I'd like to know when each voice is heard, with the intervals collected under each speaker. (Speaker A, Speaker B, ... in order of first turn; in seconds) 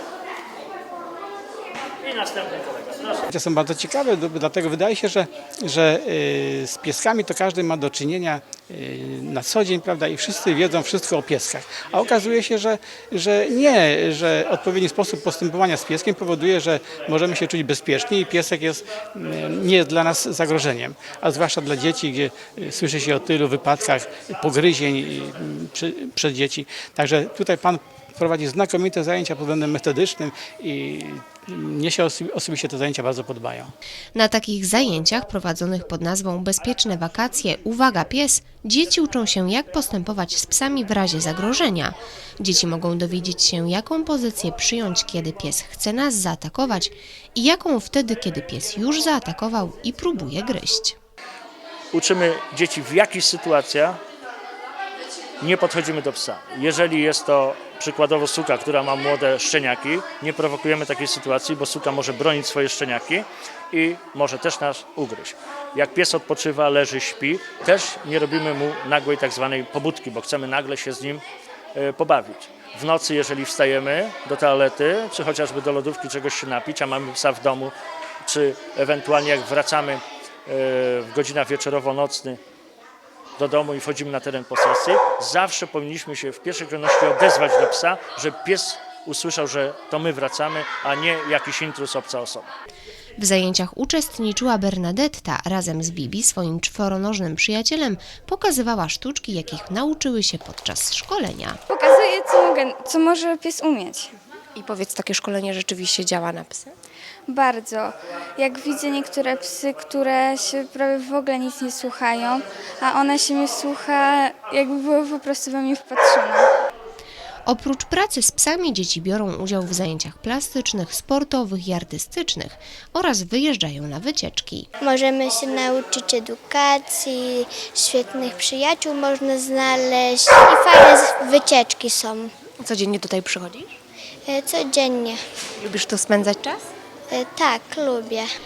Speaker A: 2.0-3.3, 51.9-54.0, 55.4-71.2, 71.7-82.4, 83.4-92.5
Speaker B: 3.3-33.7
Speaker C: 34.1-51.0, 93.2-101.6, 104.5-106.7, 117.5-124.7, 132.6-133.7, 135.6-136.6
Speaker D: 101.7-104.1, 107.3-116.5
Speaker E: 124.8-132.3, 134.3-135.2, 137.1-138.3